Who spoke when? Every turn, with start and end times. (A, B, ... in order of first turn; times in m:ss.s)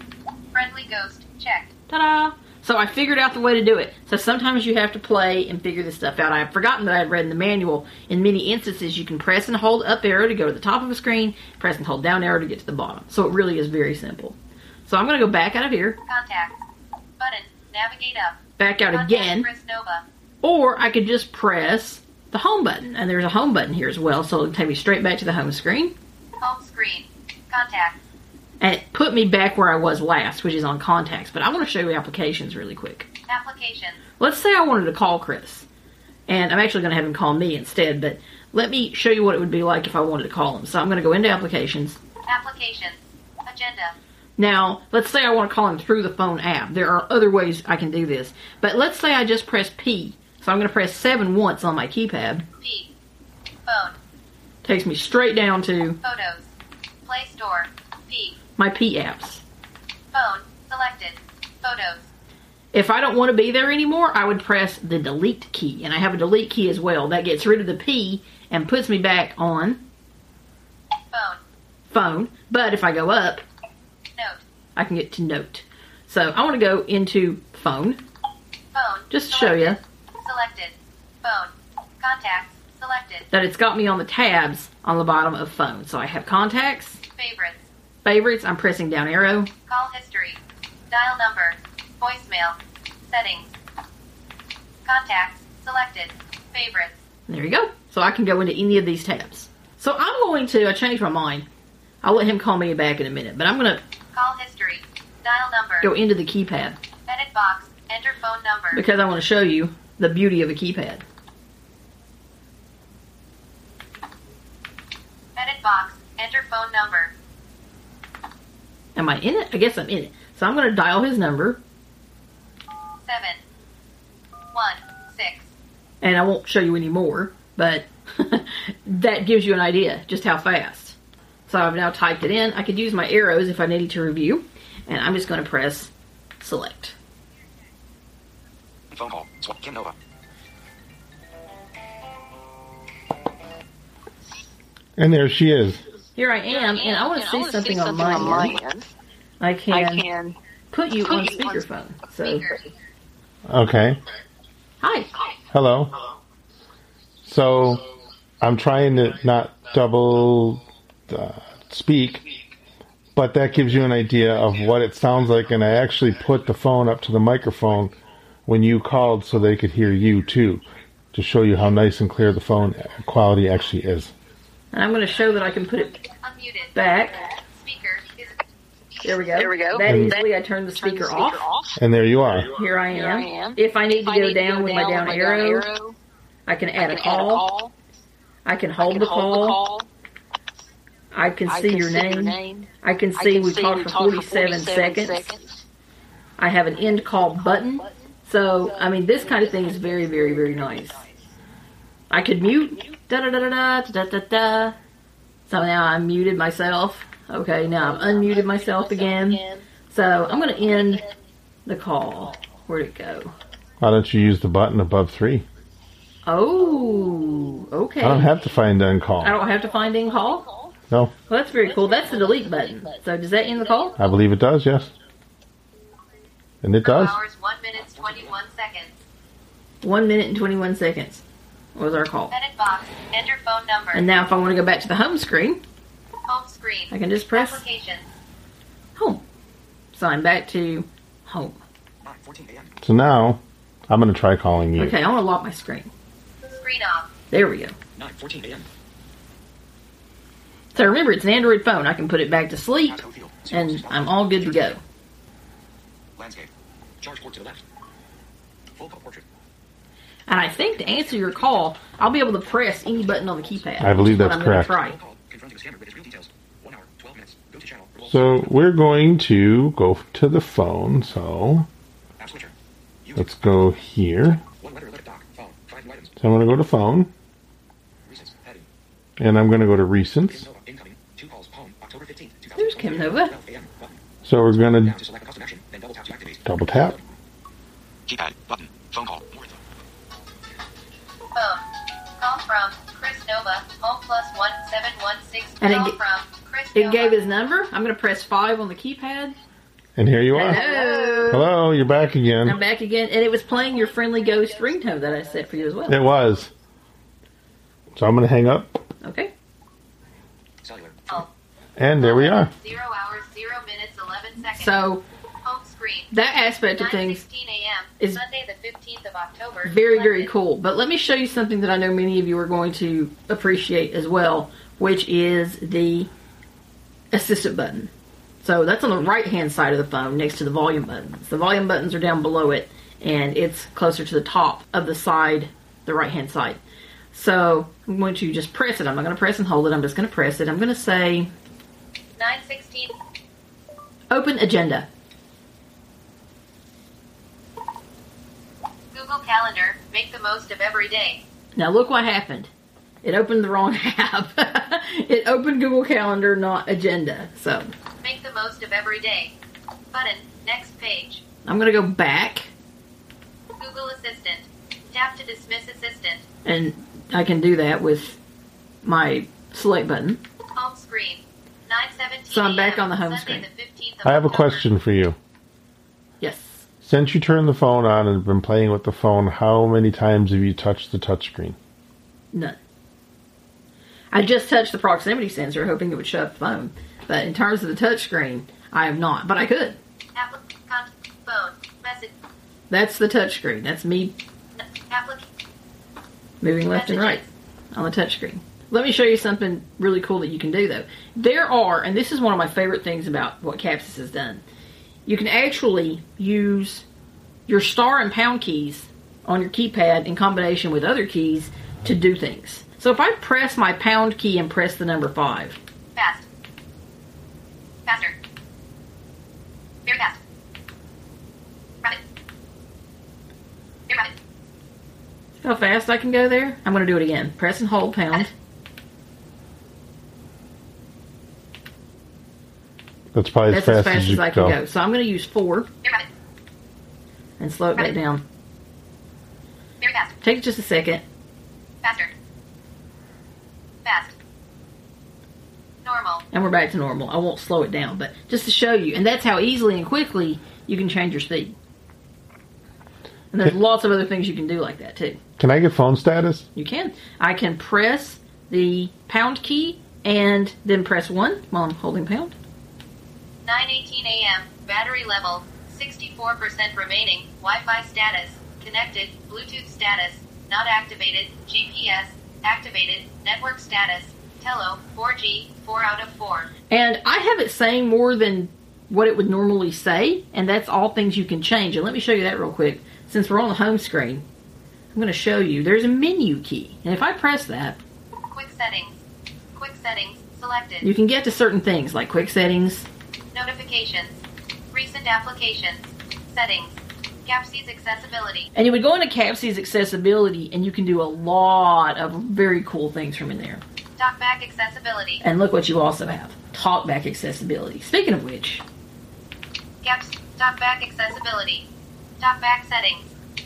0:00.5-0:01.7 A
0:01.9-0:16.0 B
0:16.1-0:16.6 A
0:17.2-0:20.0 A
0:18.6-0:19.5 B
0:20.4-0:26.0 B
0:26.4-0:28.0 A
0:28.6-0:33.1 B
0:33.3-0:34.0 A
0:34.2-0:35.7 B
0:36.3-0:42.0 B
0:42.3-0:43.9 A
0:44.4-0:52.4 B
0:52.6-0:52.9 A
0:53.7-0:54.0 A
0:54.6-0:56.0 B
0:56.0-0:56.5 A
0:57.0-0:58.4 A
0:58.6-0:59.4 B
1:00.1-1:02.1 A
1:02.7-1:09.8 B
1:11.1-1:11.4 A
1:11.9-1:13.4 B
1:14.2-1:14.4 A
1:14.8-1:18.0 B
1:18.7-1:23.3 A
1:19.1-1:19.8 B
1:23.3-1:27.0 B
1:27.2-1:27.6 A
1:28.0-1:29.5 B
1:29.7-1:33.5 A
1:34.8-1:37.0 A
1:37.3-1:41.5 B
1:42.0-1:43.8 B
1:44.1-1:45.9 A
1:45.8-1:46.8 B
1:47.1-1:48.8 A
1:48.7-1:51.0 B
1:55.4-1:57.1 A
1:59.0-2:01.6 B
2:03.0-2:03.4 A
2:04.5-2:05.5 A
2:06.0-2:11.0 B
2:11.5-2:16.9 B
2:18.9-2:19.9 C
2:25.0-2:25.8 D
2:26.2-2:28.6 B
2:26.5-2:28.9 E
2:29.4-2:30.1 B
2:29.7-2:30.4 E
2:30.7-2:32.5 B
2:31.0-2:31.6 E
2:32.2-2:32.6 A
2:33.5-2:34.0 D
2:34.8-2:35.1 B
2:35.5-2:36.0 D
2:37.2-2:37.8 D
2:38.4-2:42.2 D
2:43.1-2:47.9 D
2:48.4-2:54.1 D
2:54.7-2:56.0 B
2:56.2-2:56.9 A
2:56.7-2:57.2 B
2:57.4-2:58.3 A
2:59.0-3:01.5 B
2:59.3-3:01.7 E
2:59.8-3:00.2 D
3:01.8-3:02.5 D
3:02.5-3:05.7 B
3:02.9-3:06.0 E
3:06.5-3:07.5 B
3:06.8-3:07.7 E
3:08.4-3:09.6 B
3:08.8-3:09.9 E
3:11.1-3:15.4 B
3:11.4-3:15.6 E
3:16.4-3:21.1 B
3:17.4-3:18.1 E
3:18.6-3:21.2 E
3:22.1-3:24.8 B
3:25.5-3:31.1 B
3:27.8-3:29.7 E
3:30.3-3:31.0 E
3:31.6-3:33.3 B
3:33.8-3:35.4 D
3:36.2-3:38.4 B
3:38.0-3:39.4 D
3:39.2-3:40.5 B
3:40.0-3:40.7 E
3:41.3-3:44.0 B
3:41.8-3:42.9 E
3:44.0-3:44.9 D
3:46.6-3:47.2 D
3:46.8-3:48.9 A
3:49.8-3:52.3 B
3:52.3-3:54.1 A
3:53.9-3:55.6 B
3:56.3-3:58.1 A
3:56.9-3:57.6 B
3:59.0-3:59.2 B
3:59.9-4:01.6 B
4:02.0-4:02.8 C
4:02.8-4:05.0 D
4:04.8-4:05.9 B
4:06.6-4:07.1 A
4:07.3-4:07.8 B
4:08.0-4:08.7 C
4:10.7-4:14.8 B
4:12.8-4:14.8 C
4:16.2-4:16.5 C
4:17.0-4:17.6 C
4:18.8-4:19.2 C
4:20.3-4:25.0 B
4:20.6-4:21.4 C
4:23.8-4:24.7 D
4:24.0-4:28.5 C
4:28.0-4:31.7 D
4:32.2-4:32.5 C
4:33.0-4:33.3 C
4:33.2-4:34.4 D
4:34.6-4:36.2 C
4:36.2-4:37.1 D
4:38.1-4:38.6 C
4:39.2-4:40.5 D
4:40.3-4:44.0 C
4:42.6-4:43.3 B
4:44.2-4:45.0 D
4:44.5-4:47.0 C
4:46.4-4:47.0 D
4:48.1-4:49.6 C
4:51.3-4:51.7 A
4:52.2-4:57.3 A
4:55.6-4:56.0 B
4:56.7-4:59.4 B
5:00.0-5:00.7 D
5:00.3-5:01.5 B
5:00.7-5:01.2 E
5:01.3-5:02.6 D
5:02.4-5:06.0 B
5:04.3-5:05.3 E
5:05.9-5:06.5 D
5:07.9-5:08.8 D
5:09.0-5:09.3 B
5:10.6-5:11.2 C
5:11.8-5:12.5 D
5:12.0-5:14.7 A
5:14.5-5:15.0 B
5:15.4-5:20.3 A
5:16.1-5:17.2 B
5:19.6-5:26.1 B
5:27.1-5:27.9 B
5:28.4-5:36.6 B
5:37.1-5:41.3 B
5:42.2-5:43.0 A
5:44.1-5:44.9 B
5:48.9-5:51.2 A
5:51.5-5:52.5 B
5:53.0-5:57.7 B
5:58.0-5:59.3 A
5:59.9-6:01.2 A
6:01.4-6:02.5 B
6:03.6-6:06.2 A
6:06.4-6:08.2 B
6:08.8-6:10.2 B
6:10.5-6:14.6 A
6:12.3-6:13.4 B
6:14.0-6:15.2 D
6:16.2-6:16.6 B
6:16.8-6:21.6 D
6:24.1-6:29.8 B
6:30.2-6:32.1 A
6:32.7-6:34.1 B
6:34.6-6:35.3 A
6:36.4-6:37.2 B
6:36.7-6:37.3 A
6:37.7-6:44.4 B
6:45.1-6:46.8 B
6:47.5-6:55.6 B
6:56.0-6:56.2 A
6:57.8-6:58.2 A
6:59.8-7:00.2 A
7:05.4-7:08.3 B
7:13.1-7:14.6 D
7:13.5-7:15.7 B
7:17.4-7:18.2 B
7:19.8-7:20.2 A
7:20.2-7:21.0 B
7:21.8-7:22.1 A
7:23.8-7:24.1 A
7:25.8-7:26.2 A
7:26.3-7:31.6 B
7:33.3-7:35.2 B
7:35.4-7:36.5 D
7:36.5-7:42.4 B
7:43.4-7:56.5 A
7:56.7-8:04.2 B
8:04.9-8:07.8 B
8:08.3-8:09.0 A
8:09.5-8:10.8 A
8:10.8-8:12.9 B
8:13.3-8:14.2 A
8:14.7-8:18.5 A
8:18.5-8:23.6 B
8:24.0-8:25.2 A
8:25.2-8:28.6 B
8:29.8-8:31.7 A
8:32.2-8:33.1 A